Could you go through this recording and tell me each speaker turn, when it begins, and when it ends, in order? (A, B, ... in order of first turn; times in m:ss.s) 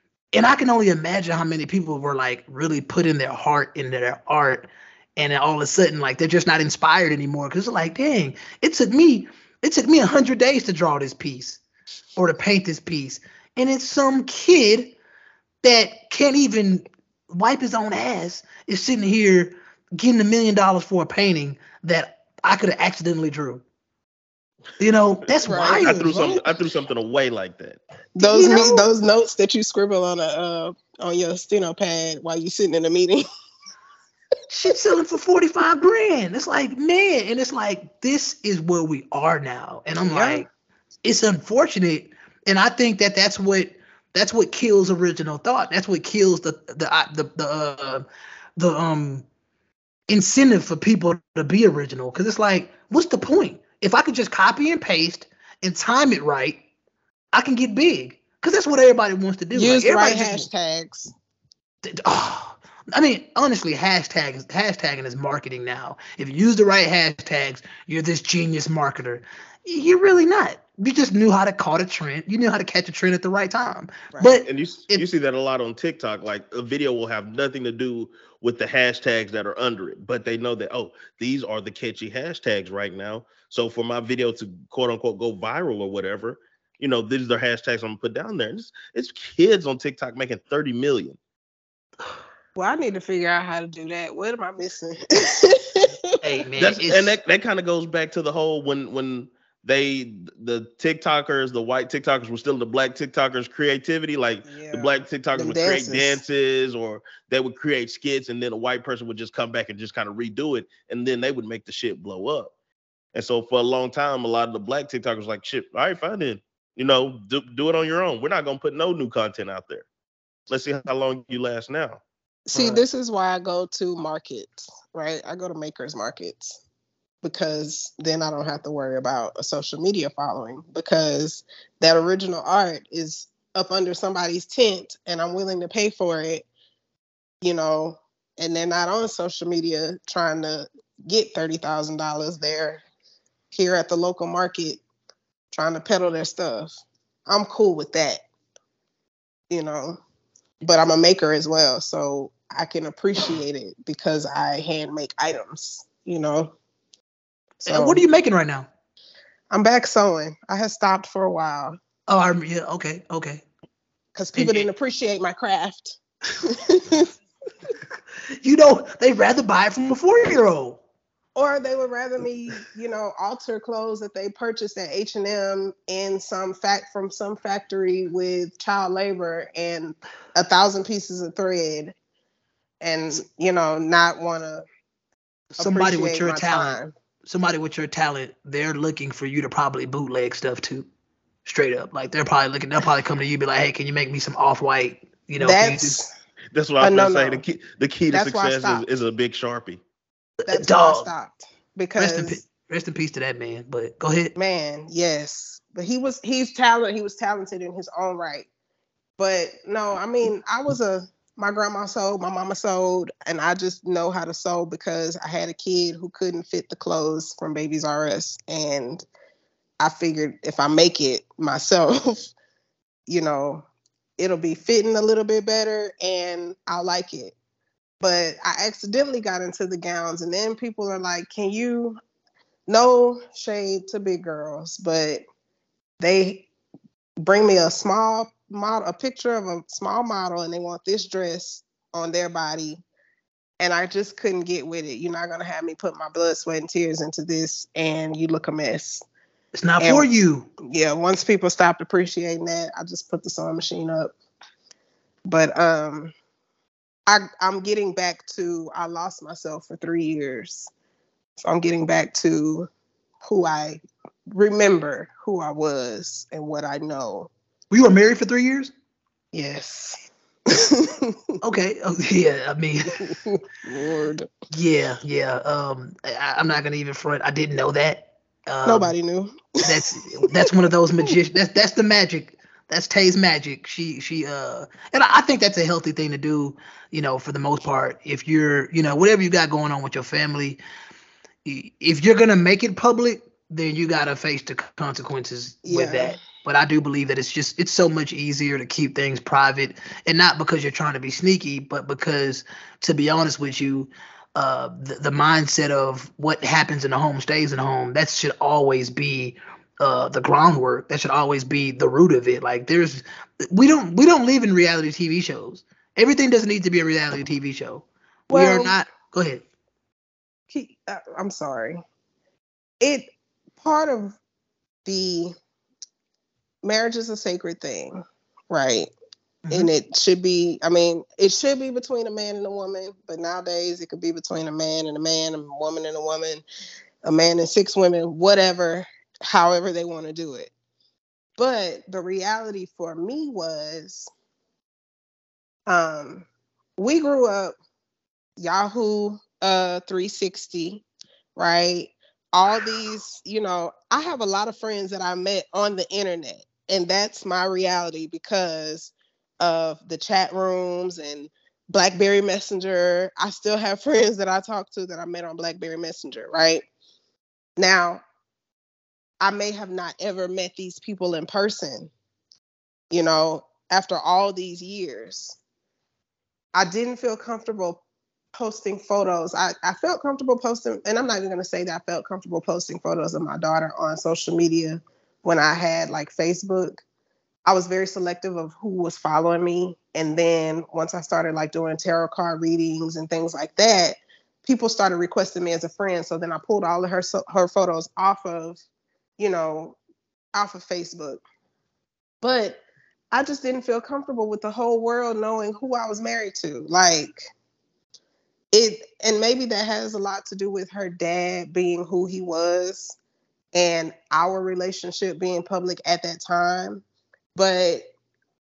0:00.3-0:11.6 A
0:12.2-0:14.9 A
0:15.6-0:23.6 A
0:24.8-0:26.3 A
0:25.4-0:26.4 B
0:25.8-0:27.8 C
0:28.2-0:33.2 B
0:28.2-0:28.9 A
0:34.5-0:40.5 A
0:40.0-0:40.5 B
0:41.0-0:48.0 A
0:48.6-0:49.2 A
0:50.1-0:56.6 A
0:57.3-1:00.4 A
0:59.5-1:01.1 B
1:01.8-1:15.0 A
1:14.1-1:14.4 B
1:14.4-1:31.2 C
1:32.6-1:36.2 B
1:36.2-1:37.1 A
1:36.6-1:52.5 C
1:44.5-1:46.2 B
1:53.1-1:59.9 C
2:00.5-2:02.0 C
2:02.5-2:06.6 B
2:07.2-2:16.4 B
2:17.4-2:22.8 B
2:23.5-2:24.8 B
2:25.5-2:28.2 B
2:29.5-2:30.0 B
2:30.6-2:36.5 B
2:37.6-2:38.0 B
2:37.6-2:38.7 A
2:39.5-2:41.8 B
2:42.1-2:43.4 A
2:44.1-2:47.1 B
2:44.3-2:44.6 A
2:48.4-2:50.8 A
2:51.4-3:01.9 B
3:02.8-3:04.6 B
3:05.6-3:10.9 A
3:05.6-3:06.9 B
3:11.4-3:16.0 A
3:15.4-3:16.1 B
3:16.5-3:19.8 C
3:16.8-3:17.4 B
3:18.1-3:18.8 B
3:20.4-3:21.1 A
3:20.5-3:22.4 B
3:22.0-3:24.3 A
3:24.4-3:28.5 B
3:29.2-3:39.0 B
3:39.8-3:42.3 B
3:43.1-3:43.6 B
3:44.2-3:47.3 B
3:48.0-3:52.0 B
3:52.7-3:55.2 B
3:56.0-3:56.5 B
3:57.2-4:02.8 B
4:03.6-4:09.0 B
4:09.5-4:10.5 A
4:09.8-4:10.1 B
4:10.6-4:14.1 B
4:15.2-4:16.1 B
4:17.1-4:20.7 B
4:21.4-4:22.7 B
4:23.2-4:27.3 B
4:27.7-4:28.7 A
4:29.3-4:31.3 B
4:31.4-4:33.1 A
4:33.0-4:34.3 B
4:34.5-4:38.9 A
4:38.6-4:40.0 B
4:39.6-4:50.6 A
4:51.4-5:19.4 A
4:55.6-4:56.2 B
5:18.3-5:18.7 B
5:20.5-5:21.8 B
5:22.8-5:24.2 B
5:24.8-5:25.3 B
5:26.6-5:28.9 B
5:29.4-5:29.7 A
5:29.5-5:36.4 B
5:37.0-5:40.5 B
5:41.4-5:44.1 B
5:45.7-5:47.6 B
5:48.4-5:50.8 B
5:51.4-6:06.6 B
6:07.6-6:08.0 B
6:09.2-6:11.9 B
6:12.9-6:15.4 B
6:16.5-6:17.8 B
6:18.3-6:26.8 B
6:27.4-6:38.6 B
6:39.2-6:39.8 B
6:40.3-6:41.2 B
6:42.2-6:42.6 B
6:43.1-6:47.3 B
6:48.5-6:53.0 B
6:53.5-6:56.8 B
6:57.3-6:57.8 B